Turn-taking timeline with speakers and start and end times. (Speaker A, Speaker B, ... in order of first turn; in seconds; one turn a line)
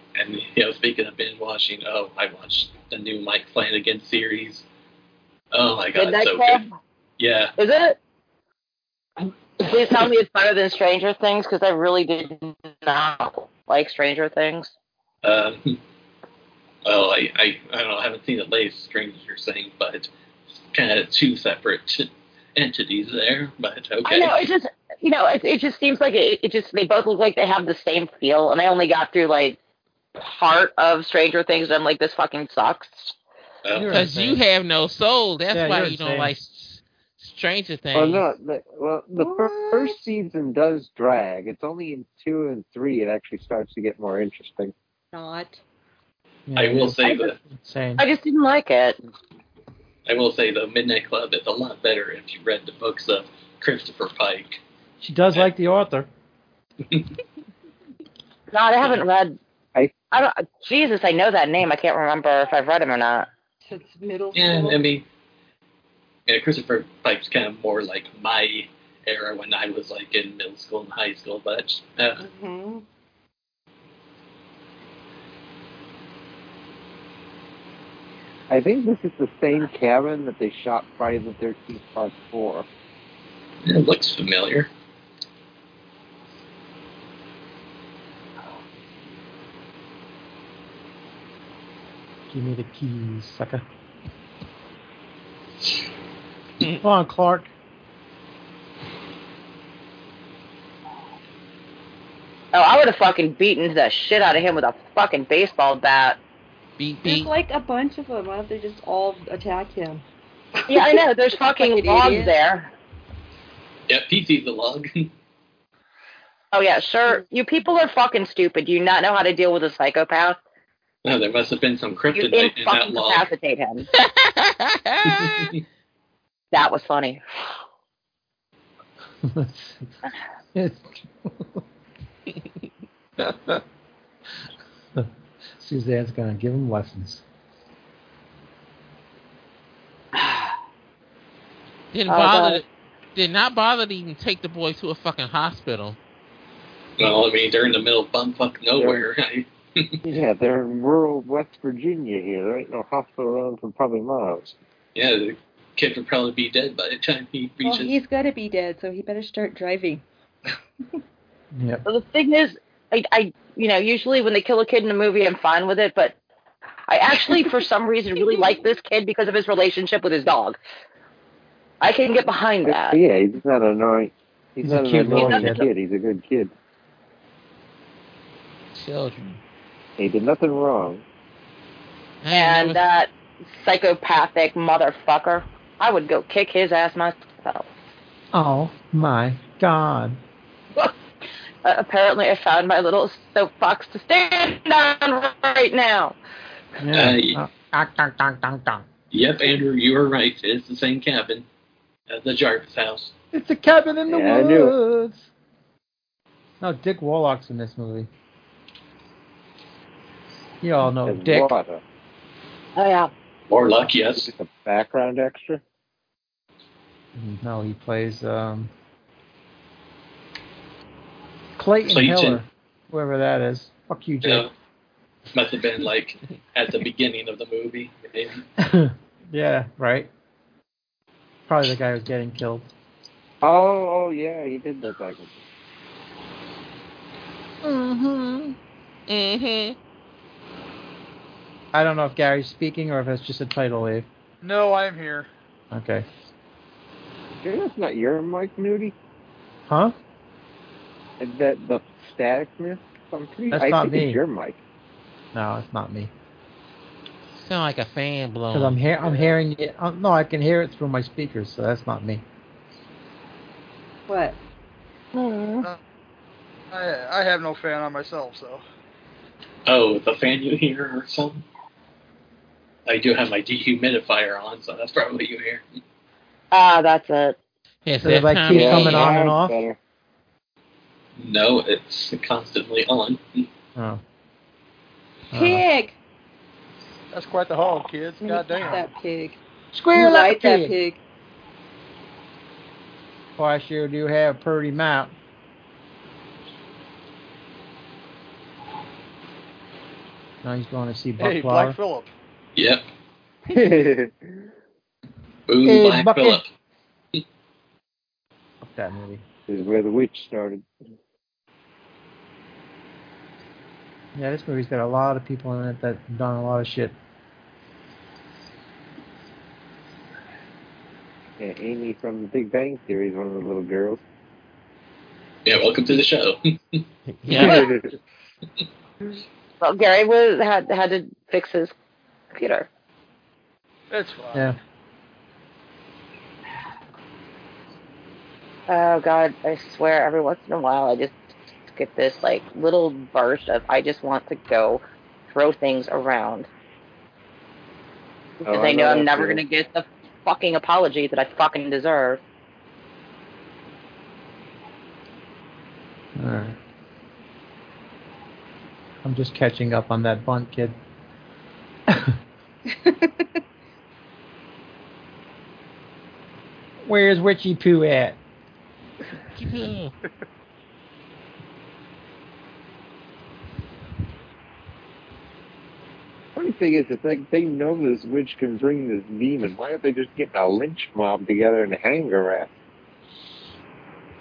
Speaker A: 0.1-4.6
Speaker A: 5.5-6.6
Speaker B: 5.9-6.6
Speaker A: 7.2-7.5
Speaker B: 7.6-8.0
Speaker B: 9.6-14.7
Speaker A: 15.2-15.8
Speaker A: 16.8-24.4
Speaker B: 24.0-29.6
Speaker B: 30.1-33.1
Speaker A: 33.6-34.0
Speaker C: 33.8-34.4
Speaker D: 33.9-38.2
Speaker C: 35.5-36.3
Speaker E: 37.9-44.7
Speaker F: 39.1-40.0
Speaker F: 45.1-45.6
Speaker C: 46.5-48.0
Speaker A: 46.5-47.4
Speaker B: 48.0-49.0
Speaker A: 50.0-54.6
Speaker C: 55.0-56.1
Speaker B: 58.5-59.4
Speaker B: 60.1-63.3
Speaker F: 63.6-64.8
Speaker A: 64.3-65.0
Speaker A: 66.3-72.2
Speaker F: 72.2-72.8
Speaker E: 78.5-82.7
Speaker A: 83.6-84.7
Speaker C: 92.3-93.6
Speaker C: 96.8-97.5
Speaker B: 102.5-106.2
Speaker D: 106.8-107.3
Speaker F: 107.0-110.0
Speaker F: 110.7-112.3
Speaker B: 110.7-112.7
Speaker A: 113.9-115.1
Speaker B: 116.5-120.4
Speaker A: 121.0-123.3
Speaker B: 122.1-123.9
Speaker D: 123.9-125.5
Speaker A: 125.0-125.6
Speaker B: 126.5-127.2
Speaker C: 129.2-129.9
Speaker C: 130.5-131.6
Speaker C: 133.2-133.6
Speaker C: 134.9-137.2
Speaker B: 140.2-140.5
Speaker D: 141.9-146.0
Speaker B: 142.1-142.6
Speaker A: 147.0-150.0
Speaker E: 148.8-149.0
Speaker E: 150.0-154.5
Speaker A: 154.9-158.0
Speaker F: 157.6-160.0
Speaker C: 161.5-161.8
Speaker B: 161.8-166.1
Speaker B: 166.9-170.6
Speaker B: 171.8-173.0
Speaker E: 172.7-176.5
Speaker C: 174.6-175.7
Speaker B: 175.1-175.6
Speaker D: 178.7-179.4
Speaker E: 180.0-181.0
Speaker D: 182.2-182.8
Speaker B: 182.3-187.7
Speaker C: 188.3-190.2
Speaker B: 191.6-196.2
Speaker C: 196.8-198.8
Speaker A: 196.9-197.4
Speaker A: 199.1-201.4
Speaker A: 202.1-203.1
Speaker C: 203.3-205.3
Speaker E: 204.1-204.7
Speaker C: 206.6-208.1
Speaker C: 210.6-211.5
Speaker E: 211.0-211.8
Speaker B: 212.8-213.1
Speaker A: 213.5-214.3
Speaker E: 214.2-215.6
Speaker C: 217.2-218.7
Speaker C: 221.6-224.4
Speaker A: 221.9-222.4
Speaker A: 224.2-224.5
Speaker A: 225.3-228.4
Speaker C: 228.6-230.1
Speaker C: 231.5-232.7
Speaker E: 233.4-235.4
Speaker C: 237.6-238.6
Speaker D: 239.1-239.8
Speaker C: 241.7-244.1
Speaker G: 244.4-245.3
Speaker C: 245.7-246.1
Speaker E: 247.4-248.9
Speaker C: 249.7-249.9
Speaker E: 251.2-254.6
Speaker C: 253.5-254.2
Speaker C: 255.3-256.1
Speaker D: 257.4-258.8
Speaker C: 258.5-262.2
Speaker F: 264.1-264.4
Speaker B: 265.1-265.7
Speaker G: 266.7-268.6
Speaker A: 269.6-271.4
Speaker A: 272.9-275.6
Speaker B: 276.5-277.4
Speaker D: 277.8-279.1
Speaker C: 278.0-279.6
Speaker E: 278.5-279.8
Speaker A: 281.2-283.5
Speaker C: 283.7-284.0
Speaker F: 285.3-286.0
Speaker C: 285.3-285.6
Speaker G: 287.1-288.9
Speaker F: 288.2-289.4
Speaker C: 289.7-290.8
Speaker F: 289.9-291.0
Speaker C: 293.4-295.1
Speaker C: 300.4-301.8
Speaker G: 301.2-302.1
Speaker A: 302.6-302.8
Speaker E: 303.5-304.4
Speaker A: 305.5-306.5
Speaker C: 305.6-306.4
Speaker C: 308.6-309.2
Speaker E: 309.5-310.6
Speaker C: 314.1-316.9
Speaker E: 321.4-324.0
Speaker A: 325.4-326.8
Speaker D: 327.1-327.7
Speaker E: 327.3-327.9
Speaker B: 329.6-331.7
Speaker B: 332.3-332.7
Speaker G: 333.9-334.6
Speaker B: 338.7-341.2
Speaker B: 341.7-346.5
Speaker E: 348.4-349.4
Speaker B: 348.4-352.2
Speaker C: 356.2-356.6
Speaker C: 359.0-360.7
Speaker C: 361.9-362.1
Speaker F: 362.7-363.3
Speaker C: 366.8-368.2
Speaker D: 369.4-369.9
Speaker E: 376.3-382.5